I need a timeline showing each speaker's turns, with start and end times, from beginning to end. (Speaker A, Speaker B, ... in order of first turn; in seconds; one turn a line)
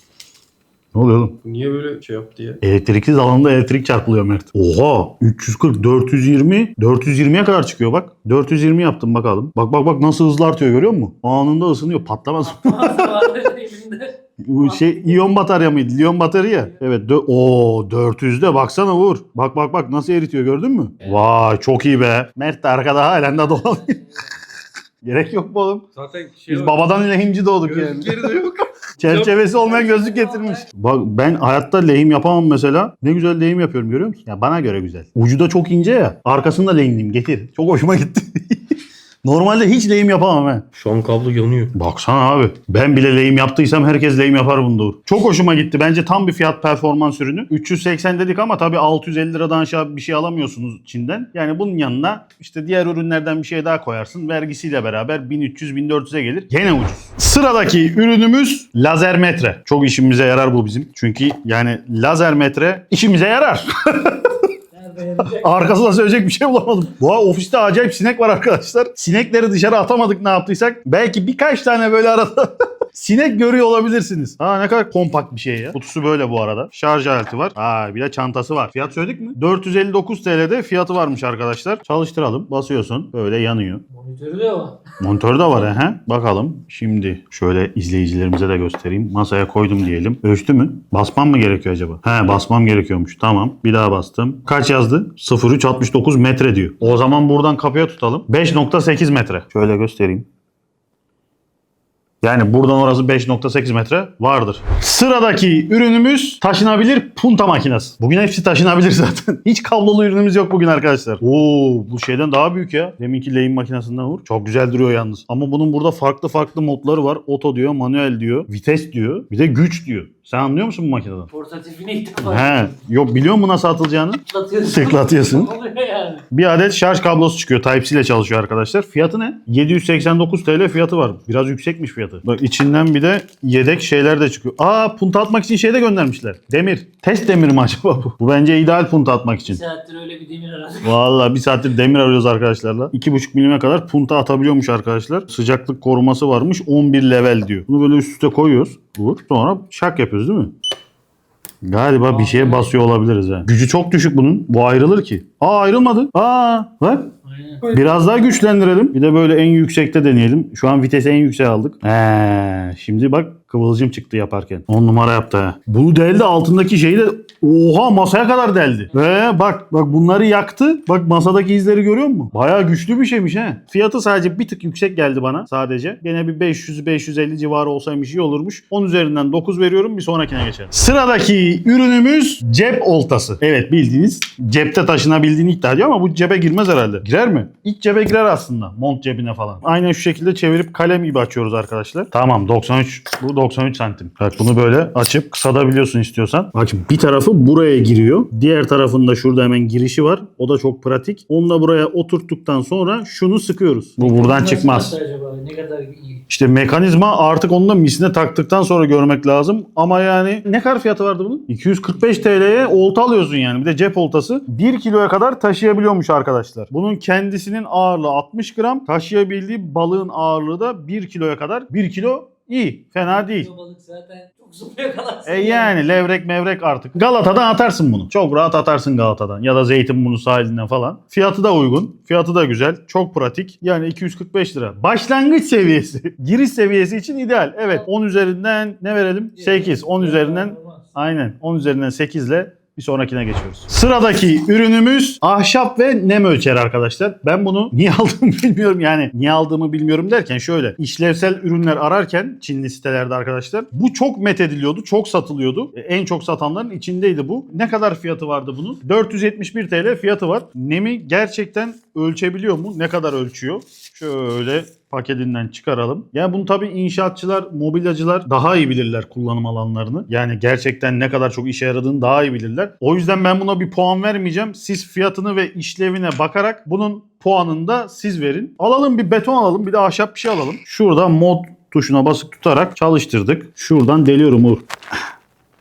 Speaker A: 0.9-1.4
Speaker B: 1.4-2.6
Speaker A: 2.6-13.4
Speaker C: 12.4-15.2
Speaker A: 14.4-24.1
Speaker C: 23.7-24.0
Speaker A: 25.0-25.9
Speaker B: 25.9-26.8
Speaker A: 26.5-28.4
Speaker B: 27.6-29.4
Speaker A: 29.0-40.7
Speaker C: 29.4-30.6
Speaker B: 40.7-41.7
Speaker A: 41.7-64.5
Speaker C: 64.7-65.6
Speaker A: 65.2-83.8
Speaker C: 83.9-84.8
Speaker A: 85.0-100.3
Speaker A: 102.2-121.3
Speaker C: 121.3-122.7
Speaker A: 122.2-125.5
Speaker C: 124.3-126.2
Speaker A: 126.3-139.6
Speaker C: 139.5-140.8
Speaker A: 140.8-150.5
Speaker A: 151.6-157.1
Speaker C: 152.1-152.7
Speaker C: 157.3-157.6
Speaker A: 157.7-204.9
Speaker C: 204.0-206.2
Speaker A: 206.3-223.5
Speaker C: 223.1-225.8
Speaker A: 225.2-284.6
Speaker C: 239.3-240.9